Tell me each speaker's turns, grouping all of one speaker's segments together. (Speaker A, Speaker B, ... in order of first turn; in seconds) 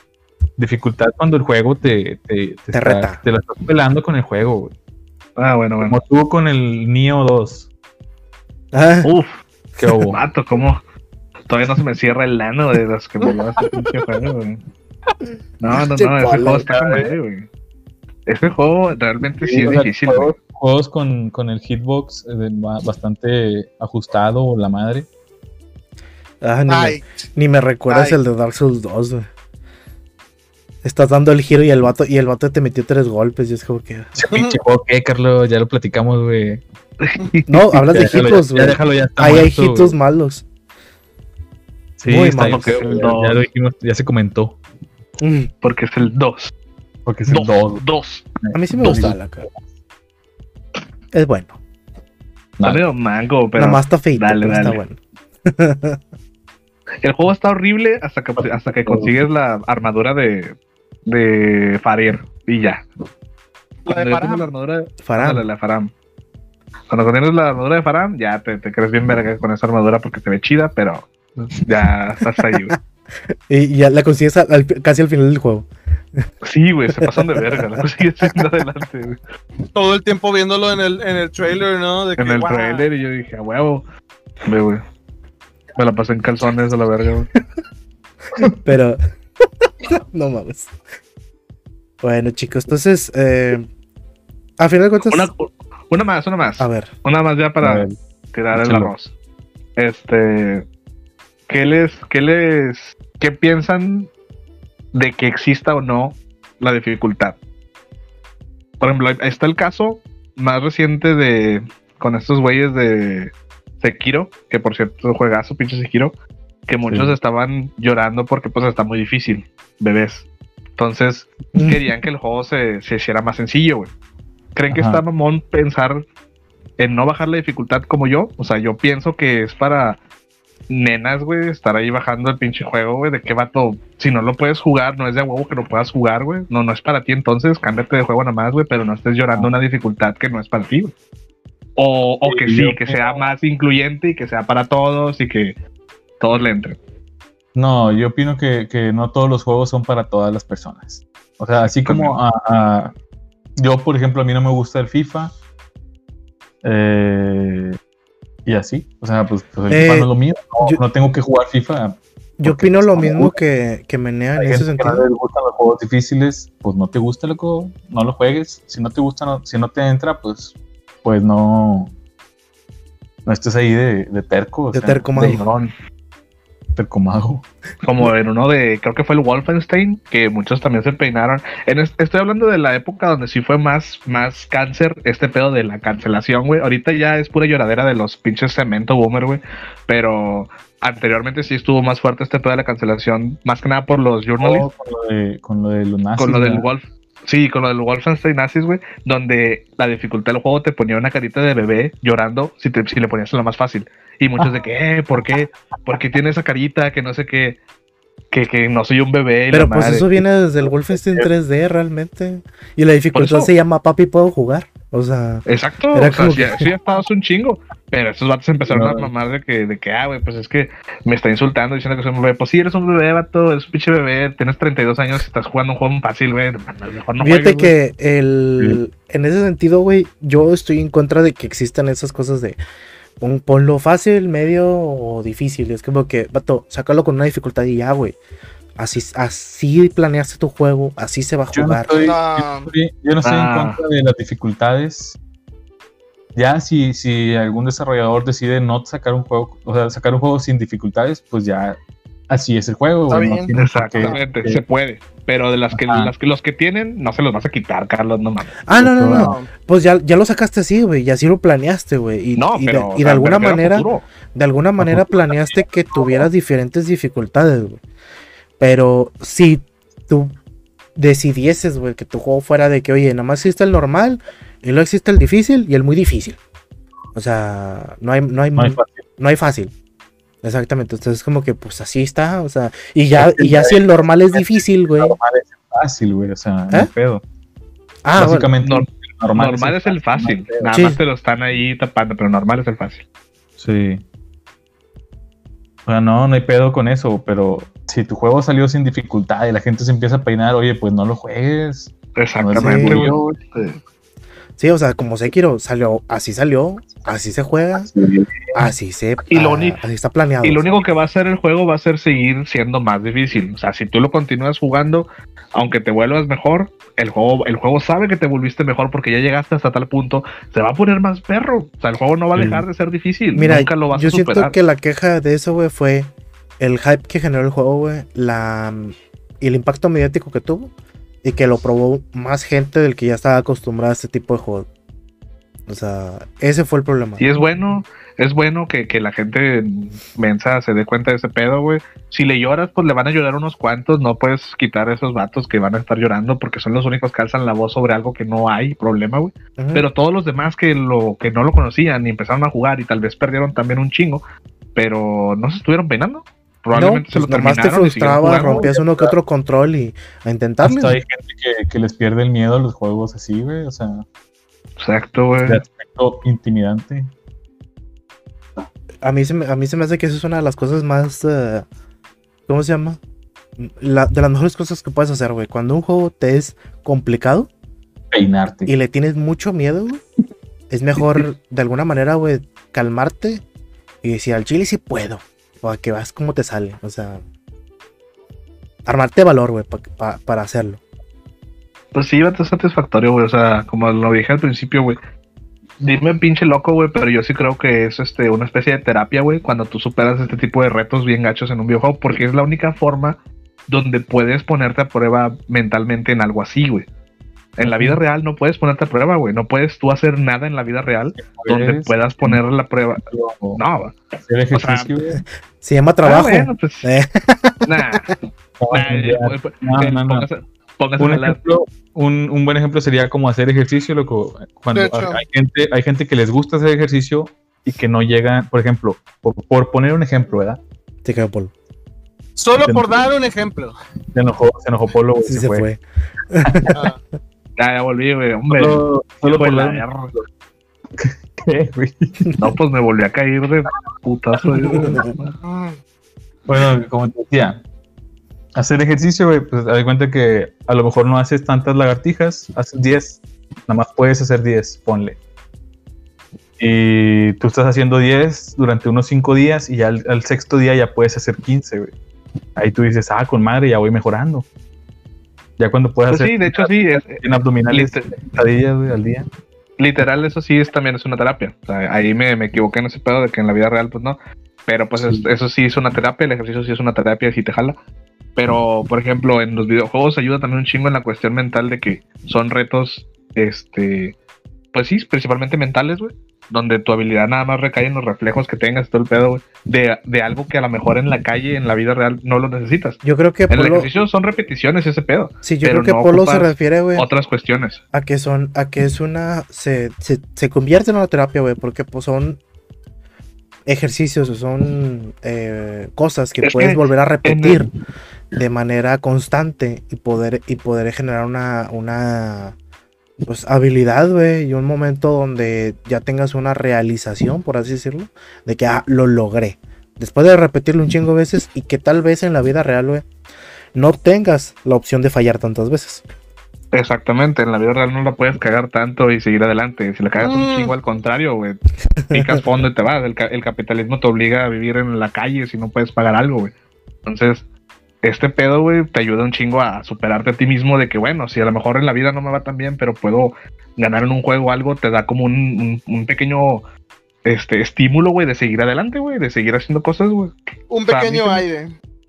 Speaker A: 0.6-4.7, 5.8-7.7, 9.8-10.2, 16.7-17.1, 19.4-25.1, 34.1-36.6, 37.9-40.0, 42.0-44.6, 47.0-47.8, 48.4-49.6, 58.4-59.1, 97.6-98.0, 98.5-98.9, 116.9-117.2, 124.7-125.0, 142.2-143.2, 147.5-152.9, 153.6-155.3, 156.6-157.8, 158.4-163.4, 164.4-171.9, 173.2-175.5, 176.8-177.4, 194.4-196.6, 218.7-219.1, 241.5-245.2, 246.3-251.8, 252.3-254.6, 255.7-256.1, 258.7-259.4, 264.8-265.1, 278.6-279.0, 283.1-283.8, 284.3-287.2, 288.2-290.7, 293.6-294.0, 295.9-303.2, 307.8-308.5, 322.4-322.6, 358.4-359.1, 360.6-364.1, 365.4-367.1, 378.1-378.7, 407.6-408.0, 411.2-412.4, 413.1-413.6, 414.2-415.2, 418.6-420.3, 421.0-430.6, 432.6-433.1, 434.1-435.6, 436.4-436.7, 438.5-440.2, 441.0-442.4, 444.6-445.0, 446.4-447.6, 448.5-455.2, 456.6-461.9, 462.6-464.5, 465.6-469.3, 475.0-475.2
Speaker B: 2.7-3.2, 8.7-9.1, 15.9-16.7, 26.4-29.2, 30.8-34.1, 37.5-40.4, 42.0-42.8, 45.2-45.5, 48.5-49.5, 51.1-51.5, 53.5-56.0, 65.0-65.5, 73.5-76.2, 77.1-78.3, 88.6-89.0, 89.8-90.7, 92.0-93.7, 94.6-95.3, 96.6-96.9, 159.7-160.1, 162.4-165.1, 174.7-175.4, 209.5-216.7, 227.2-232.6, 233.2-238.2, 238.8-242.0, 258.6-267.8, 268.6-270.3, 270.9-276.4, 277.1-279.7, 280.4-285.1, 288.0-288.5, 290.7-291.0, 302.6-303.1, 304.6-307.9, 308.5-310.8, 323.3-330.7, 331.2-334.7, 335.7-337.2, 349.6-349.9, 356.7-361.0, 369.0-371.6, 372.5-373.0, 373.6-377.5, 378.7-380.0, 380.7-383.4, 384.0-387.2, 388.8-390.8, 415.6-417.6, 431.0-431.5, 435.2-436.9, 444.7-445.1, 493.0-493.9, 495.4-497.1, 497.9-502.4, 503.6-507.7, 508.3-512.5, 513.2-523.0, 523.7-526.0, 532.1-532.4
Speaker C: 5.4-6.0, 9.0-9.4, 10.1-10.8, 11.5-14.6, 15.6-17.5, 18.3-20.3, 37.0-37.6, 42.4-43.5, 45.6-46.5, 47.3-48.2, 52.6-54.8, 57.0-60.5, 61.0-62.8, 63.9-65.9, 66.9-72.7, 76.4-79.2, 82.2-83.8, 84.5-84.8, 85.8-87.3, 95.1-99.1, 99.8-100.7, 101.5-104.1, 104.9-107.4, 108.8-116.2, 116.7-123.9, 124.5-126.0, 126.8-130.0, 130.7-140.9, 141.8-145.6, 146.2-146.8, 151.7-152.2, 175.2-175.7, 177.8-194.7, 196.2-207.6, 208.3-210.1, 213.1-213.5, 215.4-227.7, 243.2-243.8, 253.6-258.6, 262.4-264.1, 288.6-293.0, 302.1-303.8, 309.3-309.8, 310.4-324.5, 337.2-354.2, 354.7-358.7, 364.8-365.6, 391.9-395.0, 395.8-406.9, 407.6-414.0, 414.5-414.9, 416.0-416.9, 417.6-418.1, 418.7-421.4, 437.6-440.1, 442.4-445.3, 466.1-468.2, 469.8-477.8, 478.4-484.2, 484.7-497.8, 506.4-507.6, 526.7-536.5, 537.0-537.4, 538.0-546.6, 547.2-551.4
Speaker D: 26.7-27.1, 27.9-28.2, 34.3-34.6, 63.8-64.5, 79.7-82.8, 241.9-242.7, 253.1-254.1, 259.1-259.5, 424.7-425.2, 432.4-433.8, 445.4-445.7, 530.2-530.7, 550.7-551.8